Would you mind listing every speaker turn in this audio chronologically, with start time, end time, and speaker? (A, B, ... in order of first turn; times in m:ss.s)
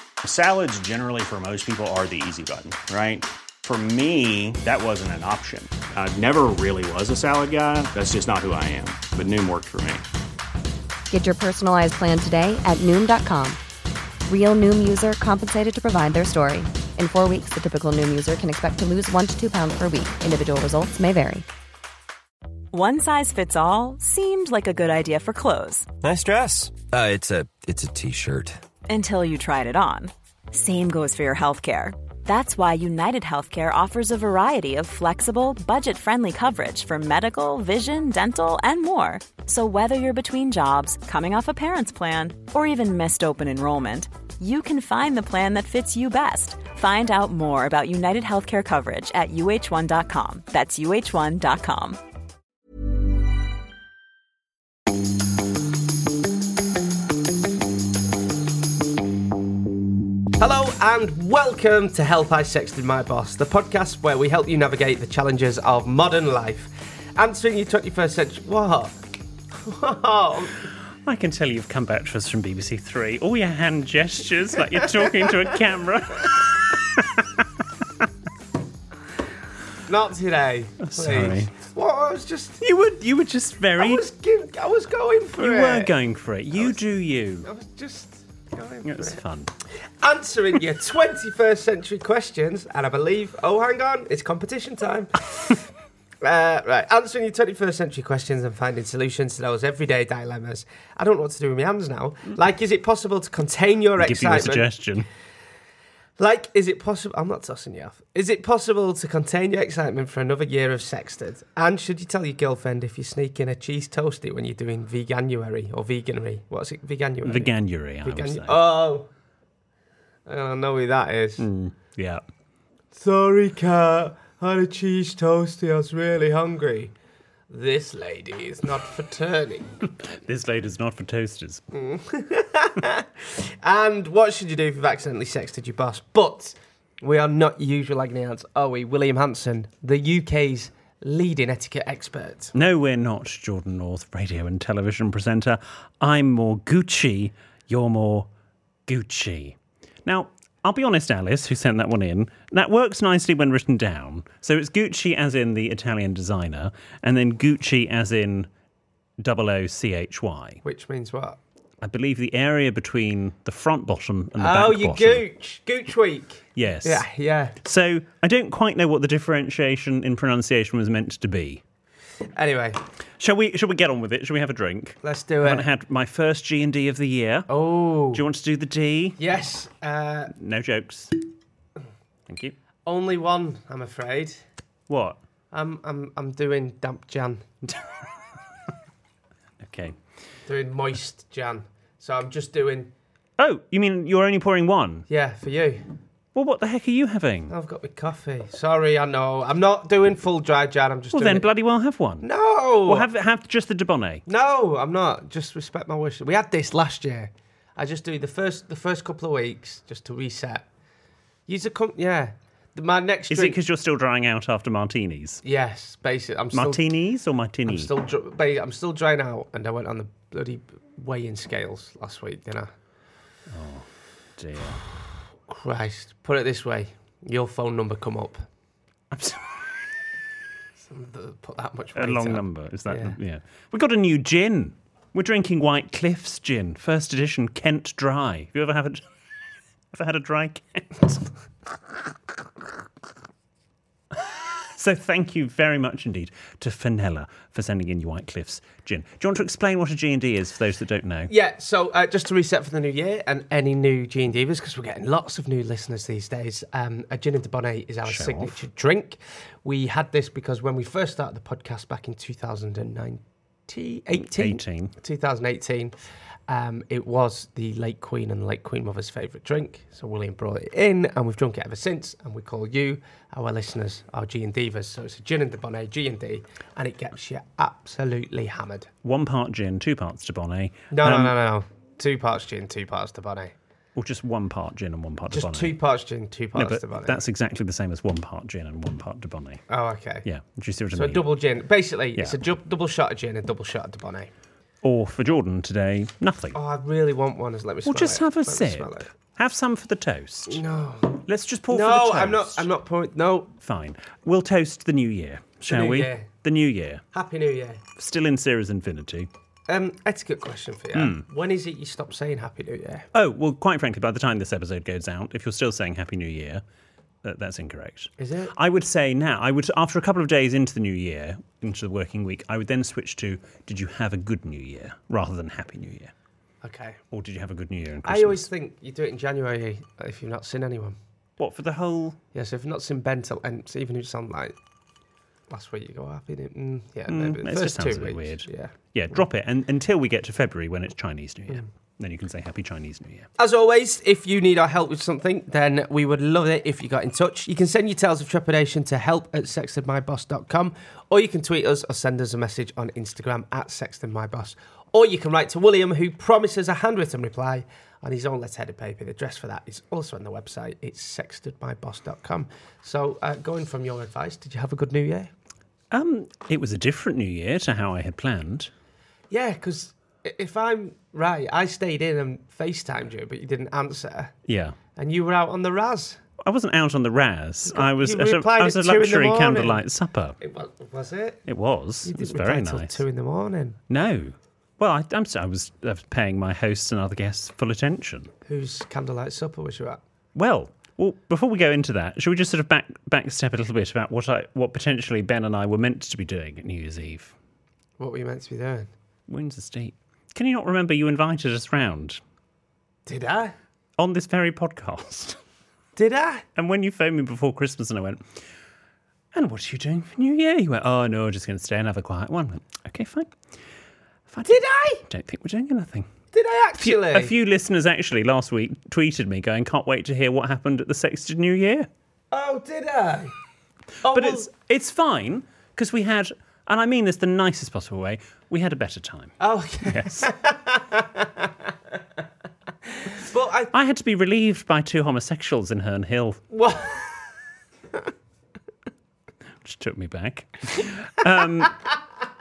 0:00.2-0:10.0 A
0:11.1-0:13.6 B
0:14.3-0:21.4 B
0:22.7-0:25.9 C
0:26.0-0:28.6 D
0:28.9-0:52.0 C
1:00.4-1:09.0 E
1:09.5-1:10.7 E
1:11.0-1:17.5 F
1:19.9-1:22.6 E
1:20.8-1:21.5 F
1:22.6-1:24.0 F
1:23.8-1:25.9 E
1:25.4-1:27.5 F
1:27.4-1:29.2 E
1:28.8-1:29.5 F
1:30.0-1:35.6 E
1:36.2-1:44.7 E
1:44.0-1:45.1 F
1:46.2-1:59.1 E
1:57.2-1:58.6 F
2:00.3-2:01.5 E
2:01.4-2:02.2 F
2:02.9-2:06.9 E
2:07.5-2:09.7 E
2:10.0-2:11.6 F
2:11.7-2:22.5 E
2:22.6-2:28.3 F
2:28.9-2:38.5 F
2:39.2-2:40.6 F
2:40.6-2:41.4 E
2:41.8-2:45.2 F
2:44.4-2:47.6 E
2:46.6-2:47.0 F
2:47.6-2:51.6 F
2:52.4-2:52.8 E
2:53.2-2:57.5 F
2:55.0-2:55.7 E
2:57.5-2:58.2 E
2:58.1-2:59.2 F
2:59.2-3:00.3 E
3:00.3-3:01.2 F
3:02.3-3:02.6 F
3:02.9-3:04.4 E
3:04.9-3:05.2 F
3:05.5-3:07.6 E
3:09.6-3:10.0 F
3:10.5-3:12.9 E
3:13.4-3:15.1 F
3:15.1-3:15.9 E
3:16.3-3:17.5 F
3:17.5-3:21.5 E
3:21.1-3:22.3 F
3:22.2-3:23.1 E
3:22.9-3:24.2 F
3:24.3-3:30.7 E
3:31.5-3:33.6 E
3:33.3-3:35.4 F
3:35.4-3:36.8 E
3:36.5-3:37.9 F
3:37.7-3:42.7 E
3:43.5-3:44.8 F
3:45.5-3:48.4 E
3:49.1-3:49.6 F
3:50.8-3:53.2 E
3:52.0-3:59.0 F
3:59.9-4:01.3 F
4:04.1-4:11.3 F
4:11.3-4:26.0 E
4:18.0-4:18.6 F
4:24.1-4:25.0 F
4:26.5-4:38.9 E
4:39.0-4:41.4 F
4:40.9-4:43.5 E
4:44.0-4:45.8 F
4:45.3-4:47.2 E
4:46.6-4:49.6 F
4:49.7-4:50.2 E
4:50.2-4:51.3 F
4:51.0-4:54.3 E
4:54.8-4:56.6 F
4:56.6-4:59.1 E
4:57.8-5:00.6 F
5:00.5-5:03.5 E
5:01.3-5:02.7 F
5:03.6-5:07.0 F
5:05.7-5:06.3 E
5:07.1-5:07.8 E
5:08.0-5:09.3 F
5:09.7-5:13.1 E
5:11.0-5:11.2 F
5:13.1-5:16.6 F
5:17.2-5:26.1 F
5:18.2-5:18.5 E
5:26.6-5:27.0 E
5:27.1-5:28.5 F
5:28.0-5:31.0 E
5:31.4-5:32.2 F
5:32.3-5:34.6 E
5:35.5-5:38.7 E
5:37.1-5:43.3 F
5:43.4-6:05.3 E
6:05.9-6:08.7 F
6:09.3-6:14.3 E
6:14.5-6:14.8 F
6:15.0-6:16.2 E
6:16.4-6:20.4 F
6:17.7-6:19.8 E
6:20.4-6:21.4 E
6:21.5-6:23.0 F
6:22.0-6:23.8 E
6:23.9-6:28.3 F
6:28.5-6:30.0 E
6:30.4-6:37.3 F
6:38.0-6:38.9 E
6:39.3-6:42.2 F
6:43.1-6:43.6 E
6:44.0-6:45.4 F
6:46.0-6:46.4 E
6:46.6-6:48.2 F
6:49.3-6:53.4 F
6:54.3-6:56.1 F
6:54.4-6:55.0 E
6:56.3-6:57.3 E
6:56.8-7:01.9 F
7:02.3-7:03.3 E
7:04.0-7:04.5 E
7:04.1-7:10.3 F
7:09.4-7:11.5 E
7:13.0-7:13.7 E
7:13.7-7:16.4 F
7:16.5-7:17.2 E
7:19.6-7:21.8 F